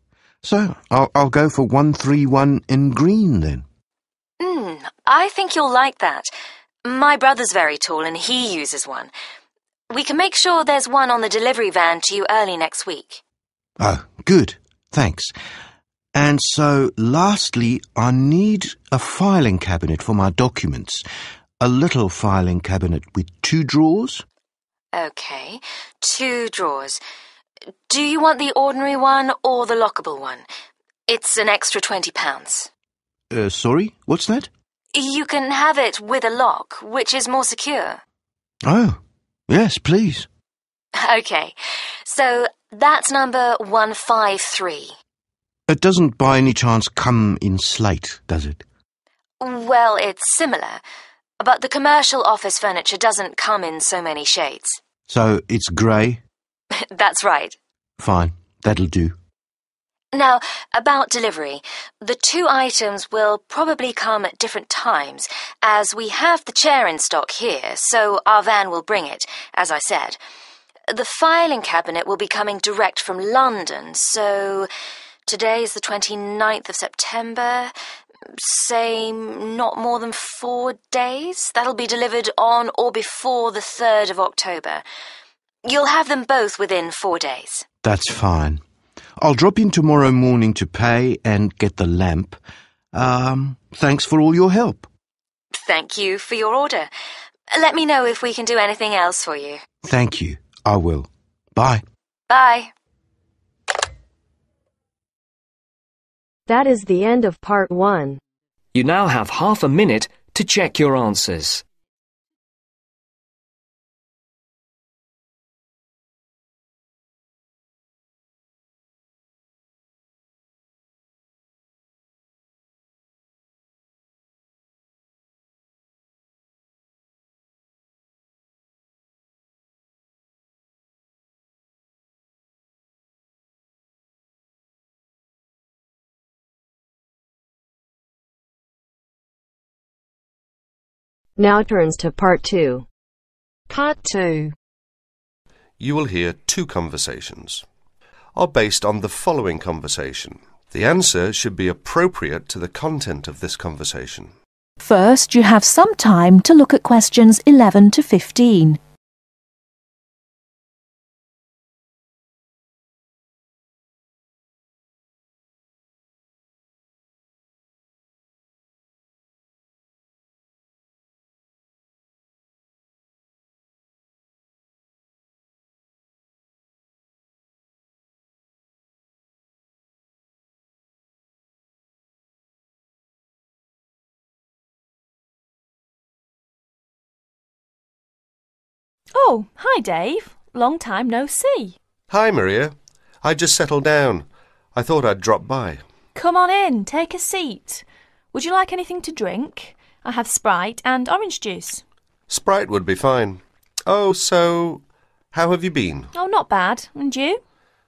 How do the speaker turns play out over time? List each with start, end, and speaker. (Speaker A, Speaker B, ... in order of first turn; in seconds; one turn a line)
Speaker A: 0.4-3.6
Speaker B: 4.4-6.3
Speaker B: 6.8-9.1
Speaker B: 9.9-13.2
Speaker A: 13.8-15.3
Speaker A: 16.1-21.0
Speaker A: 21.6-24.2
Speaker B: 24.9-27.0
Speaker B: 27.9-30.5
Speaker B: 31.1-32.7
Speaker A: 33.3-34.5
Speaker B: 35.0-38.0
Speaker A: 38.6-40.3
Speaker B: 41.0-45.0
Speaker A: 45.7-48.6
Speaker B: 49.4-50.8
Speaker B: 51.4-54.8
Speaker A: 55.1-56.2
Speaker B: 56.8-57.6
Speaker A: 58.0-59.2
Speaker B: 60.1-70.2
Speaker B: 70.9-74.7
Speaker B: 75.3-77.7
Speaker B: 78.4-84.8
Speaker B: 85.7-87.7
Speaker A: 87.8-88.6
Speaker A: 89.2-92.4
Speaker A: 92.9-94.9
Speaker B: 95.6-96.9
Speaker B: 97.5-99.6
Speaker A: 99.8-101.8
Speaker B: 102.3-102.7
Speaker C: 106.5-108.2
Speaker D: 108.8-111.6
Speaker C: 141.4-142.9
Speaker C: 143.7-144.5
Speaker E: 145.8-147.7
Speaker E: 148.4-154.3
Speaker F: 154.8-158.8
Speaker G: 189.1-191.8
Speaker E: 192.1-195.8
Speaker G: 196.2-201.8
Speaker E: 202.3-206.1
Speaker G: 206.1-207.4